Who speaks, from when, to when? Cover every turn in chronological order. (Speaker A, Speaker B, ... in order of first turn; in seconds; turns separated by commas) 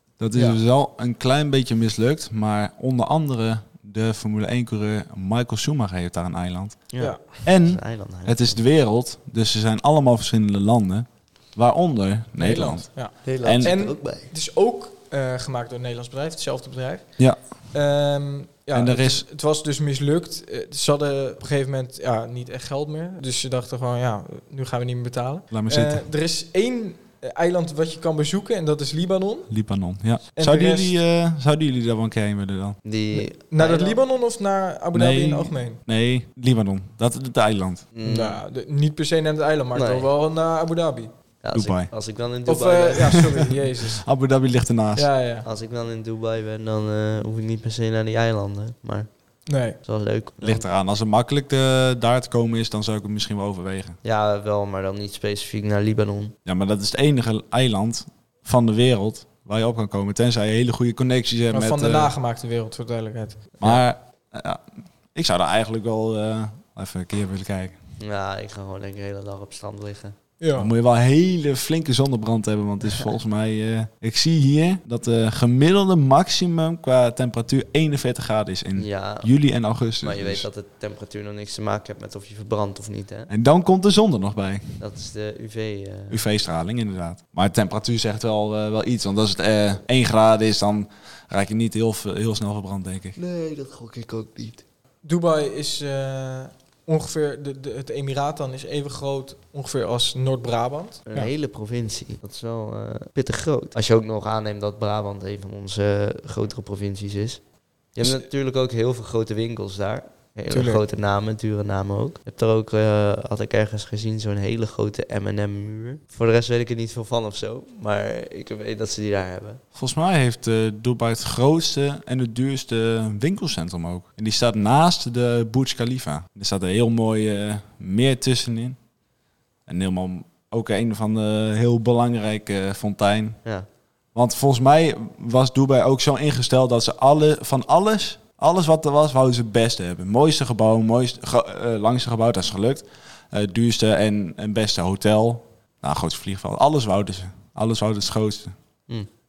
Speaker A: 0.2-13.8, Speaker B: 0.3-0.6, Speaker C: 6.9-8.6, Speaker B: 7.0-7.4, Speaker B: 12.4-29.5, Speaker C: 13.2-14.3, Speaker A: 18.7-19.2, Speaker A: 25.5-26.1, Speaker A: 29.5-32.8, Speaker B: 30.4-31.0, Speaker C: 32.9-34.0, Speaker B: 33.1-35.8, Speaker A: 34.9-37.9, Speaker C: 37.9-38.4, Speaker B: 38.0-41.1, Speaker C: 39.7-40.1, Speaker C: 41.4-43.3, Speaker A: 41.5-41.9, Speaker B: 42.5-44.0, Speaker A: 43.9-45.1, Speaker B: 44.9-45.5, Speaker C: 45.4-49.1, Speaker B: 49.5-49.8, Speaker C: 49.8-50.7, Speaker A: 50.4-54.0, Speaker C: 54.0-56.4, Speaker A: 56.5-62.1, Speaker B: 61.5-63.5, Speaker A: 63.6-67.8, Speaker C: 68.0-70.2, Speaker B: 70.4-70.7, Speaker A: 70.5-80.5, Speaker C: 78.8-79.3, Speaker C: 80.0-83.3, Speaker A: 83.3-84.8, Speaker C: 84.8-86.2, Speaker A: 86.1-93.2, Speaker C: 93.2-94.6, Speaker B: 95.0-101.3, Speaker C: 101.1-119.6, Speaker B: 110.5-110.8, Speaker A: 119.7-128.8, Speaker A: 129.7-133.4, Speaker A: 134.1-148.5